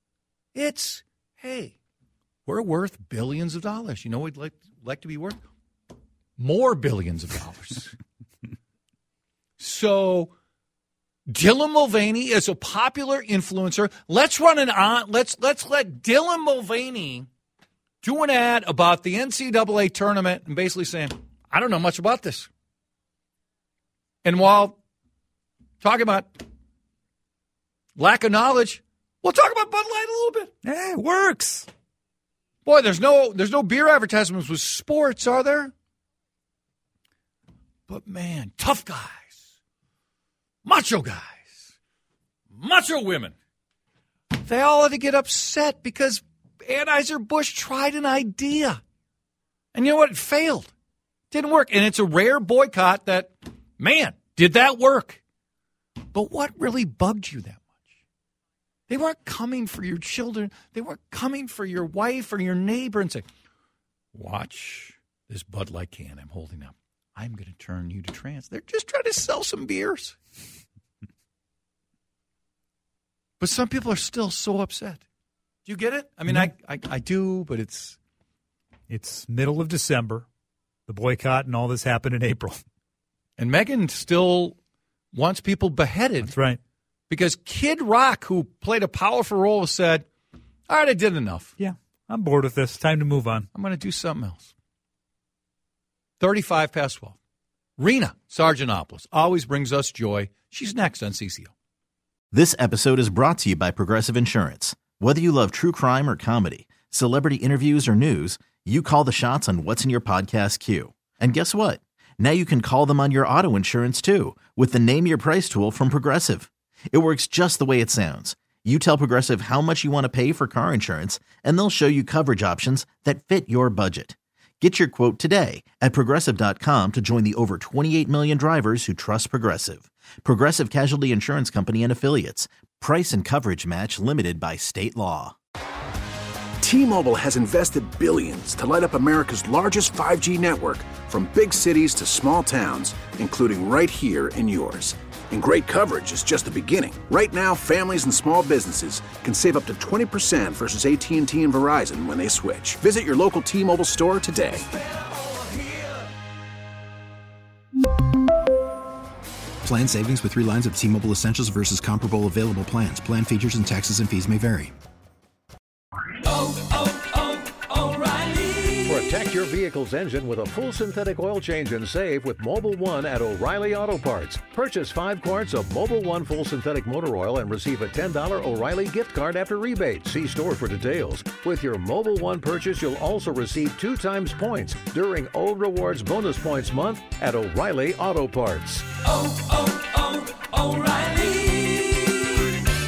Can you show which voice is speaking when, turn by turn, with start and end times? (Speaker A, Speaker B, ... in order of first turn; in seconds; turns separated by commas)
Speaker A: 0.5-1.7, Speaker A: 2.5-5.4, Speaker A: 6.4-7.9, Speaker A: 9.6-10.3, Speaker A: 11.3-17.3, Speaker A: 18.0-22.5, Speaker A: 24.2-24.8, Speaker A: 25.8-26.3, Speaker A: 28.0-30.5, Speaker B: 30.6-31.7, Speaker A: 32.6-35.7, Speaker A: 37.9-39.3, Speaker A: 40.6-41.5, Speaker A: 42.5-43.3, Speaker A: 44.4-48.8, Speaker A: 49.7-50.7, Speaker A: 51.3-55.2, Speaker A: 56.1-57.6, Speaker A: 58.9-63.2, Speaker A: 64.1-70.2, Speaker A: 73.4-75.0, Speaker A: 75.7-78.0, Speaker B: 78.9-80.3, Speaker B: 80.9-82.6, Speaker A: 83.4-84.5, Speaker A: 85.1-86.3, Speaker B: 86.2-86.6, Speaker A: 87.1-90.0, Speaker A: 90.7-91.5, Speaker B: 91.6-93.5, Speaker A: 93.5-94.5, Speaker A: 96.2-97.2, Speaker A: 97.8-101.5, Speaker C: 102.3-135.3, Speaker D: 136.6-154.6, Speaker E: 159.7-164.7, Speaker F: 168.6-188.9